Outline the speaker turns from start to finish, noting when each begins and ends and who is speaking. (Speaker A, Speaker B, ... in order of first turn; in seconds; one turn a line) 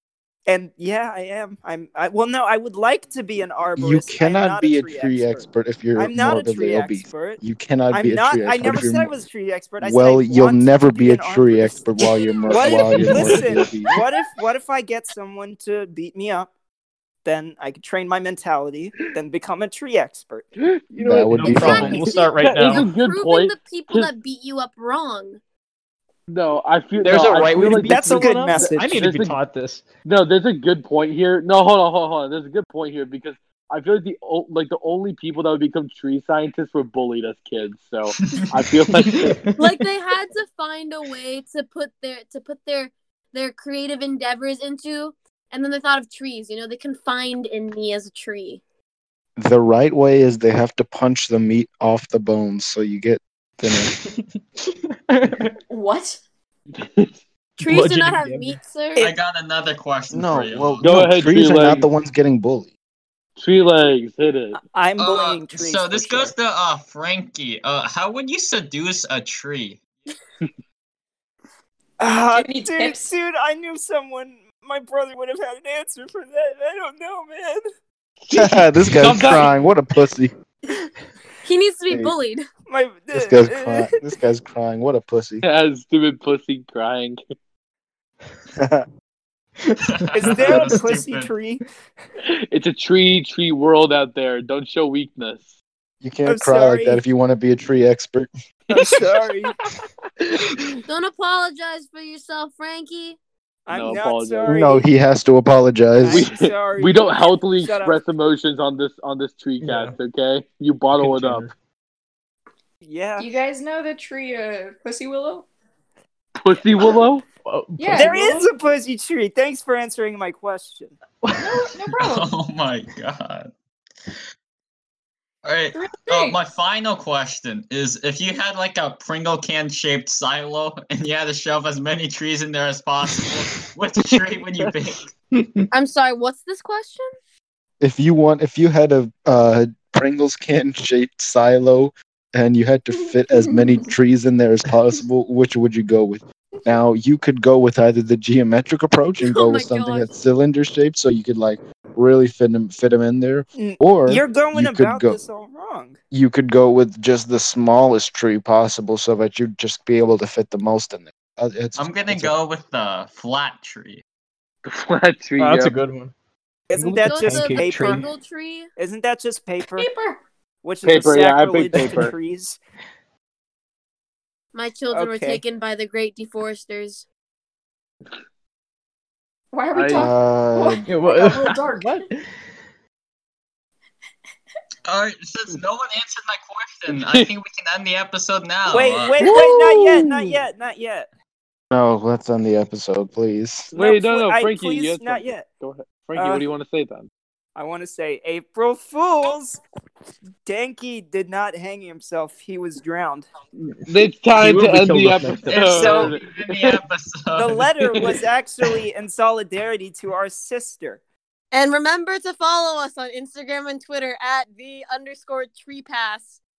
Speaker A: 0.5-11.8
Speaker B: 3.8-9.1
Speaker B: 9.8-13.9
Speaker A: 12.5-16.5
Speaker C: 12.5-13.9
Speaker A: 17.2-20.5
Speaker C: 20.6-24.1
Speaker B: 21.0-22.1
Speaker D: 21.3-22.9
Speaker E: 21.5-25.4
Speaker C: 26.3-29.4
Speaker D: 27.0-29.9
Speaker A: 27.8-28.9
Speaker C: 30.0-39.4
Speaker D: 39.0-39.6
Speaker E: 39.5-48.6
Speaker B: 49.4-53.9
Speaker D: 53.8-54.2
Speaker D: 54.9-55.5
Speaker F: 55.7-56.2
Speaker C: 56.7-57.2
Speaker E: 57.6-59.0
Speaker D: 57.6-58.6
Speaker G: 59.0-60.9
Speaker B: 60.1-62.7
Speaker C: 60.8-61.9
Speaker C: 63.4-64.6
Speaker A: 64.7-66.3
Speaker G: 65.0-69.8
Speaker A: 72.0-77.6
Speaker F: 72.3-73.0
Speaker C: 78.2-79.6
Speaker B: 78.3-80.3
Speaker E: 81.4-82.5
Speaker A: 82.7-83.9
Speaker B: 83.1-85.4
Speaker C: 85.4-87.2
Speaker B: 88.6-88.8
Speaker D: 89.6-90.8
Speaker G: 89.8-91.3
Speaker A: 90.1-91.6
Speaker C: 92.5-95.5
Speaker B: 96.0-98.3
Speaker A: 96.2-97.0
Speaker A: 98.7-99.5
Speaker C: 98.7-100.8
Speaker E: 100.9-103.2
Speaker A: 103.7-104.8
Speaker C: 103.7-104.6
Speaker B: 104.5-106.3
Speaker A: 106.0-108.0
Speaker C: 106.1-111.5
Speaker D: 109.6-110.0
Speaker D: 111.0-111.5
Speaker A: 112.8-113.3
Speaker F: 113.2-115.5
Speaker C: 116.4-117.2
Speaker D: 117.4-118.2
Speaker F: 117.8-118.5
Speaker A: 117.9-121.0
Speaker D: 121.2-121.8
Speaker F: 121.4-122.3
Speaker G: 122.0-123.5
Speaker G: 125.4-135.1
Speaker F: 125.7-126.4
Speaker C: 134.1-134.9
Speaker D: 135.3-135.7
Speaker E: 135.7-137.1
Speaker B: 137.8-155.2
Speaker F: 142.9-143.9
Speaker E: 149.2-150.1
Speaker A: 153.6-156.0
Speaker B: 156.1-162.3
Speaker G: 161.7-164.0
Speaker C: 164.6-165.8
Speaker D: 165.4-166.1
Speaker A: 166.7-168.1
Speaker D: 166.7-168.1
Speaker E: 167.1-168.7
Speaker A: 168.8-169.9
Speaker F: 169.8-170.2
Speaker A: 170.6-172.6
Speaker C: 170.8-172.1
Speaker E: 174.5-177.0
Speaker A: 174.9-175.4
Speaker F: 179.5-182.1
Speaker C: 179.7-180.1
Speaker B: 179.9-180.8
Speaker D: 180.9-182.2
Speaker G: 184.8-189.2
Speaker C: 186.9-187.3
Speaker A: 188.7-191.1
Speaker C: 189.2-190.4
Speaker D: 189.2-189.9
Speaker B: 191.7-193.7
Speaker C: 193.7-197.1
Speaker A: 193.7-195.4
Speaker A: 196.1-196.4
Speaker A: 197.6-199.6
Speaker A: 200.4-203.3
Speaker C: 203.6-206.3
Speaker D: 204.3-205.5
Speaker G: 205.5-207.7
Speaker A: 205.8-206.2
Speaker A: 207.3-211.0
Speaker E: 211.5-216.4